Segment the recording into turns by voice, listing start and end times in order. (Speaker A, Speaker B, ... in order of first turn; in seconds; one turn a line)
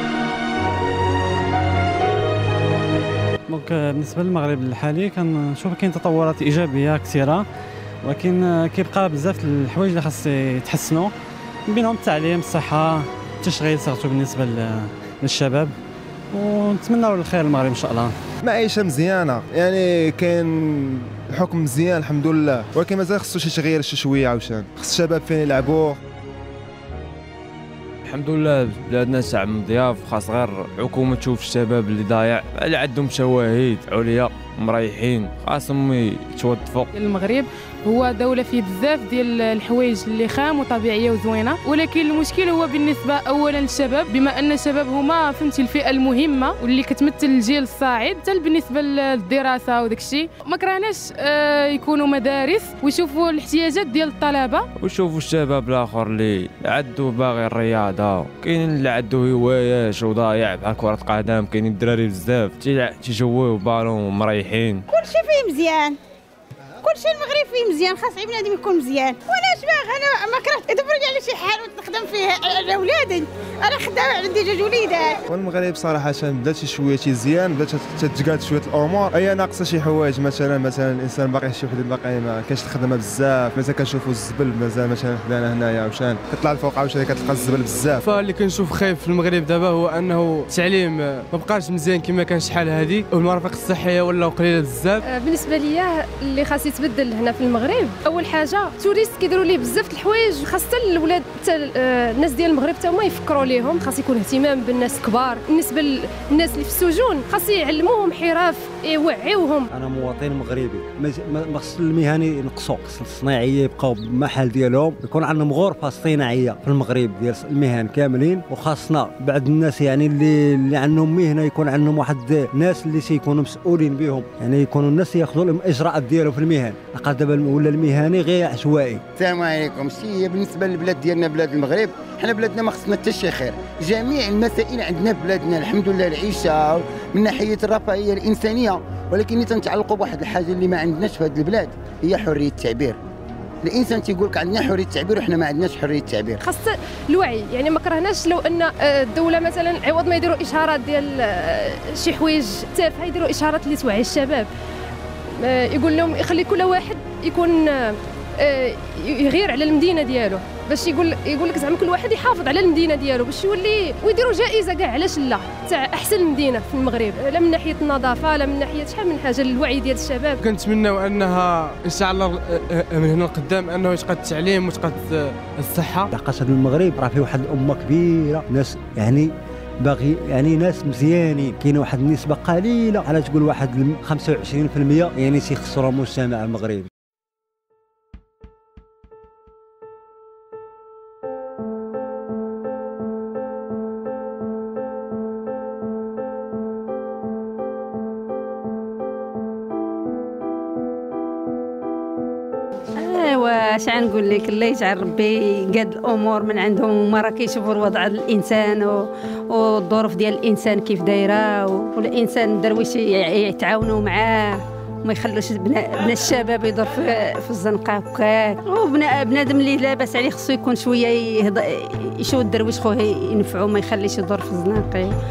Speaker A: 3.5-7.5
Speaker A: 8.0-11.1
Speaker A: 11.7-15.7
Speaker A: 16.3-18.1
Speaker B: 18.4-26.0
Speaker C: 28.0-36.9
Speaker D: 36.9-54.6
Speaker C: 54.8-64.9
Speaker E: 64.9-65.9
Speaker E: 66.8-75.2
Speaker B: 75.3-88.1
Speaker F: 88.0-95.0
Speaker G: 95.1-109.7
Speaker H: 109.7-129.0
Speaker I: 129.2-142.9
Speaker I: 143.6-146.4
Speaker G: 146.4-154.5
Speaker G: 155.4-170.4
Speaker F: 170.4-176.1
Speaker H: 176.1-179.3
Speaker H: 179.8-186.9
Speaker J: 203.0-225.1